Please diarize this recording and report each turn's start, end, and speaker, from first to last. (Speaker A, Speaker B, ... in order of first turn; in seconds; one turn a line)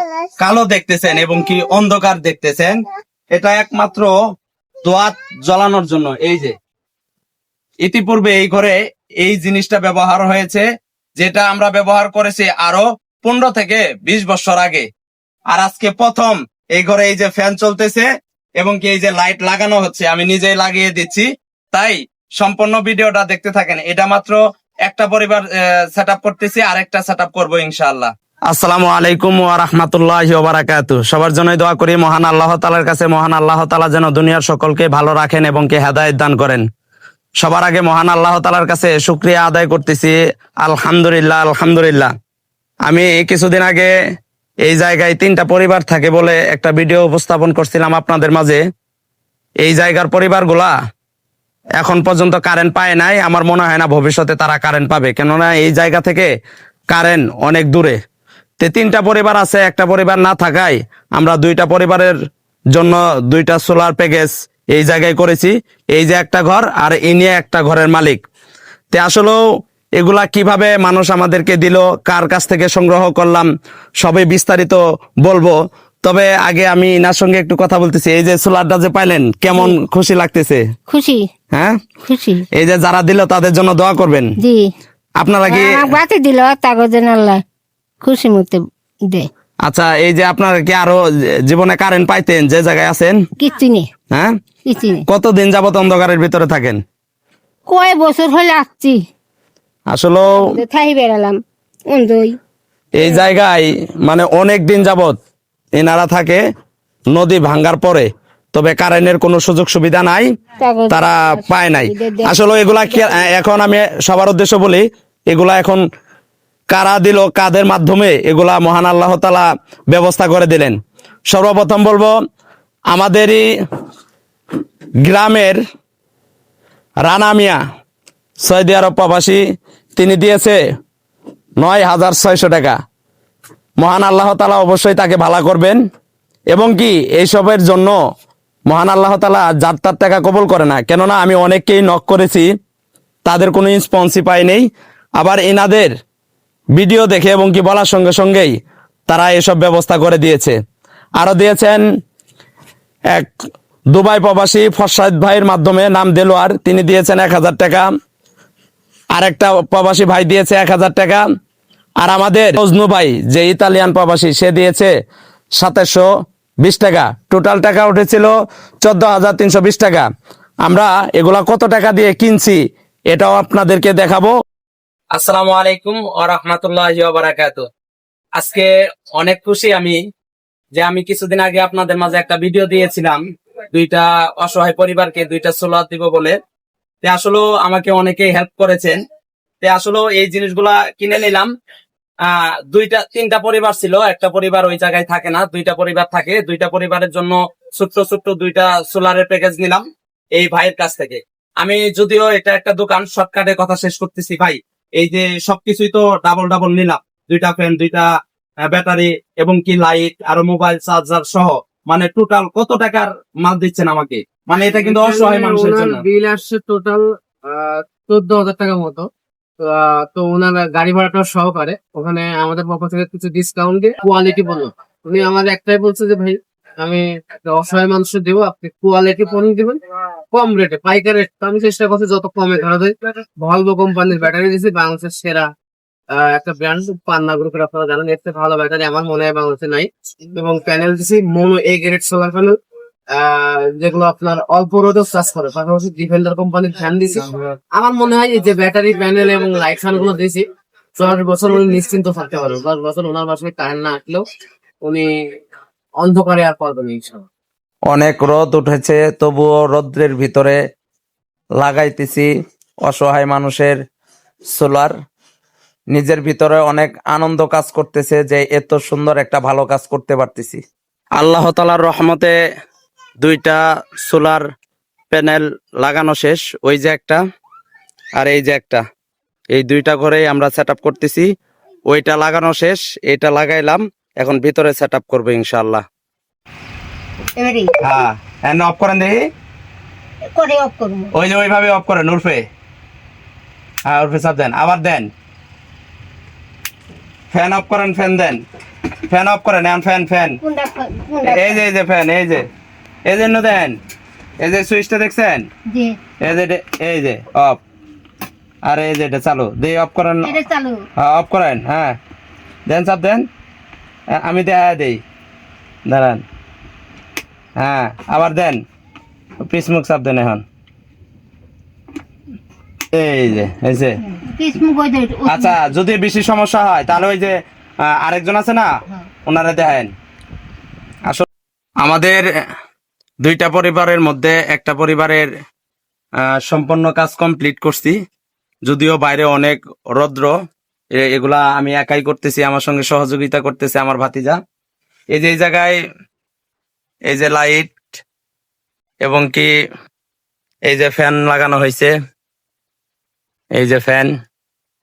Speaker A: 0.4-2.8
Speaker A: 3.3-4.1
Speaker A: 4.8-6.5
Speaker A: 7.8-10.6
Speaker A: 11.2-14.9
Speaker A: 15.5-18.1
Speaker A: 18.6-36.6
Speaker A: 37.4-42.1
Speaker A: 42.9-43.9
Speaker A: 44.6-48.6
Speaker A: 49.6-50.7
Speaker A: 51.8-56.3
Speaker A: 56.9-58.0
Speaker A: 58.6-62.1
Speaker A: 62.7-68.2
Speaker A: 68.9-69.4
Speaker A: 70.0-73.5
Speaker A: 74.0-80.6
Speaker B: 79.5-79.8
Speaker B: 80.9-81.2
Speaker A: 81.5-81.8
Speaker B: 82.1-82.4
Speaker A: 82.5-84.3
Speaker B: 84.4-84.7
Speaker A: 85.2-86.0
Speaker B: 85.5-87.4
Speaker B: 88.0-89.3
Speaker A: 89.6-93.2
Speaker B: 93.4-93.9
Speaker B: 94.7-95.0
Speaker A: 95.1-96.8
Speaker B: 97.7-99.0
Speaker A: 99.9-100.4
Speaker B: 100.3-101.4
Speaker B: 101.9-102.3
Speaker A: 103.0-105.2
Speaker A: 105.8-106.4
Speaker A: 107.1-110.2
Speaker B: 110.6-113.3
Speaker A: 110.9-115.8
Speaker A: 116.7-120.8
Speaker A: 121.3-122.1
Speaker A: 122.9-123.4
Speaker A: 125.0-125.6
Speaker A: 127.0-127.6
Speaker A: 128.4-129.4
Speaker A: 130.0-130.6
Speaker A: 131.6-132.8
Speaker A: 133.8-135.8
Speaker A: 136.5-137.9
Speaker A: 138.7-142.4
Speaker A: 143.2-144.7
Speaker A: 145.2-145.9
Speaker A: 146.8-148.5
Speaker A: 149.1-150.5
Speaker A: 151.2-151.8
Speaker A: 153.9-157.9
Speaker A: 159.1-161.2
Speaker A: 162.0-164.9
Speaker A: 165.6-166.1
Speaker A: 166.6-168.3
Speaker A: 168.8-170.1
Speaker A: 170.6-172.6
Speaker A: 173.1-174.3
Speaker A: 175.1-177.6
Speaker A: 178.4-180.0
Speaker A: 180.7-183.2
Speaker A: 183.7-186.4
Speaker A: 187.0-189.0
Speaker A: 189.6-191.5
Speaker A: 192.3-199.8
Speaker A: 200.3-208.1
Speaker A: 208.7-216.0
Speaker C: 214.8-219.1
Speaker C: 219.6-229.8
Speaker C: 230.3-235.5
Speaker C: 236.1-242.5
Speaker C: 243.1-250.4
Speaker C: 251.0-254.2
Speaker C: 254.8-255.1
Speaker C: 256.0-257.2
Speaker A: 257.9-260.6
Speaker A: 261.6-262.3
Speaker A: 262.8-263.7
Speaker A: 264.5-264.9
Speaker A: 265.9-270.6
Speaker A: 271.2-272.3
Speaker A: 273.2-274.4
Speaker A: 275.1-277.2
Speaker A: 278.2-278.8
Speaker A: 279.5-281.3
Speaker A: 281.9-285.8
Speaker B: 287.4-287.7
Speaker A: 287.8-289.2
Speaker B: 290.3-291.1
Speaker A: 291.1-292.4
Speaker A: 293.9-295.1
Speaker A: 297.3-298.4
Speaker A: 299.1-300.4
Speaker B: 300.4-301.6
Speaker A: 301.2-302.4
Speaker A: 303.1-303.8
Speaker A: 304.4-305.5
Speaker B: 305.7-306.0
Speaker A: 306.2-307.6
Speaker A: 308.7-310.3
Speaker B: 310.2-310.8
Speaker A: 311.0-311.9
Speaker A: 312.7-313.2
Speaker A: 314.1-315.0
Speaker A: 315.9-316.2
Speaker A: 317.6-318.6
Speaker A: 319.4-320.4
Speaker A: 322.9-324.0
Speaker B: 324.0-325.6
Speaker A: 325.3-327.3
Speaker A: 327.8-328.7
Speaker A: 329.3-329.9
Speaker A: 331.8-332.2
Speaker A: 333.2-335.3
Speaker A: 336.3-338.0
Speaker A: 338.6-340.3
Speaker A: 340.9-344.4
Speaker A: 345.1-345.8
Speaker A: 347.1-347.9
Speaker A: 349.0-349.5
Speaker A: 350.7-351.9
Speaker A: 353.6-354.1